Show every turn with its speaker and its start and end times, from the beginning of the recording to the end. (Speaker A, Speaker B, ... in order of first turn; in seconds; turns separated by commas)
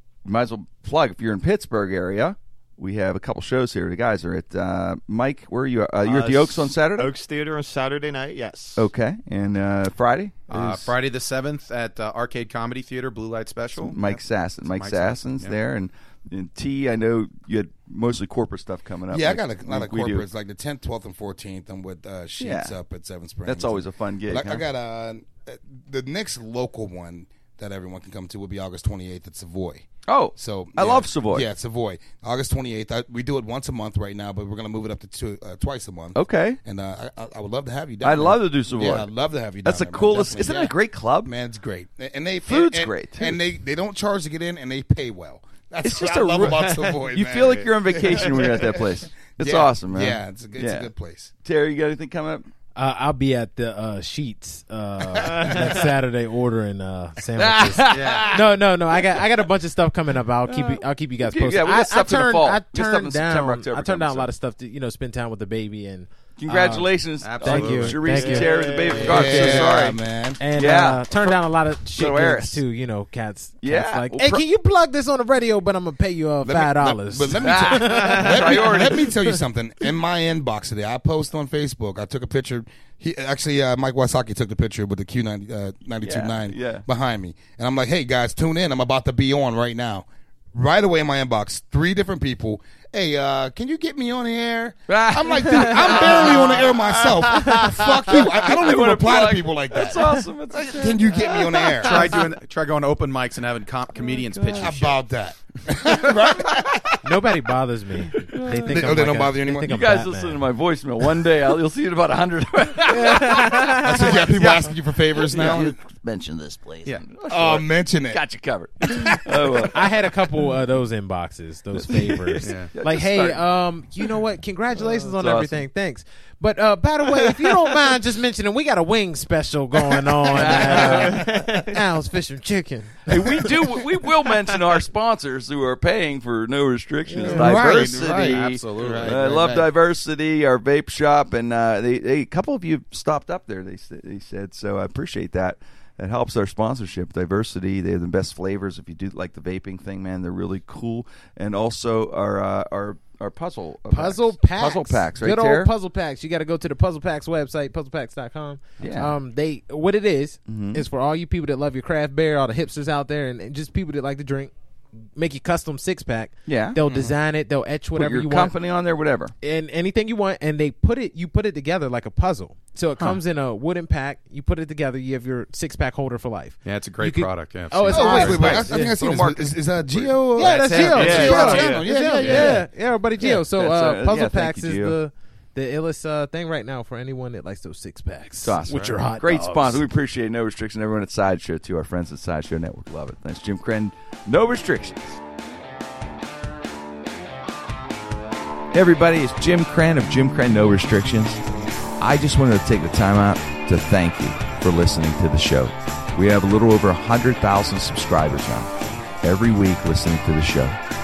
Speaker A: 0.2-7.1, Speaker B: 6.0-8.9, Speaker A: 8.8-10.9, Speaker C: 10.5-14.2, Speaker A: 13.8-20.2, Speaker C: 14.7-15.6, Speaker D: 19.1-51.3, Speaker A: 22.4-22.8, Speaker A: 23.4-24.6, Speaker A: 30.1-31.5, Speaker A: 36.1-36.6, Speaker A: 38.0-39.1, Speaker A: 39.6-41.3, Speaker A: 42.5-43.4, Speaker A: 45.8-50.9, Speaker A: 51.4-52.5, Speaker E: 52.8-66.9, Speaker A: 57.4-58.4, Speaker C: 57.9-58.3, Speaker A: 58.9-59.2, Speaker A: 60.5-64.3, Speaker A: 66.4-70.0, Speaker C: 67.2-68.3, Speaker E: 67.4-69.8, Speaker B: 68.2-69.2, Speaker D: 69.1-70.4, Speaker E: 70.4-78.7, Speaker A: 70.5-71.3, Speaker A: 72.0-72.6, Speaker A: 73.6-74.4, Speaker D: 76.4-102.2, Speaker A: 77.4-79.1, Speaker A: 86.0-86.8, Speaker A: 94.9-97.0, Speaker B: 97.3-97.9, Speaker A: 98.4-101.4, Speaker B: 101.2-101.9, Speaker C: 101.8-105.0, Speaker D: 104.6-107.0, Speaker E: 107.0-110.4, Speaker D: 108.7-109.7, Speaker A: 109.6-113.8, Speaker E: 112.9-114.2, Speaker D: 113.8-115.8, Speaker C: 114.4-114.7, Speaker A: 115.1-119.9, Speaker D: 117.3-118.2, Speaker E: 119.5-133.5, Speaker A: 121.8-123.5, Speaker C: 122.4-122.7, Speaker A: 124.8-125.6, Speaker A: 127.2-127.5, Speaker A: 130.3-131.4, Speaker B: 130.6-131.8, Speaker D: 130.8-131.1, Speaker A: 133.1-155.7, Speaker E: 137.1-137.5, Speaker D: 137.3-139.6, Speaker C: 137.3-139.6, Speaker E: 153.9-164.5, Speaker A: 158.8-159.2, Speaker A: 160.5-160.8, Speaker E: 165.2-168.5, Speaker A: 166.5-166.8, Speaker D: 166.9-167.1, Speaker A: 168.0-169.3, Speaker E: 169.4-179.0, Speaker C: 176.6-178.7, Speaker D: 177.9-182.6, Speaker A: 178.0-180.2, Speaker E: 180.4-189.8, Speaker C: 180.4-181.5, Speaker B: 180.9-181.9, Speaker A: 181.0-181.7, Speaker C: 182.2-182.6, Speaker A: 183.2-185.0, Speaker A: 188.4-195.2, Speaker A: 198.7-201.4, Speaker A: 202.0-210.8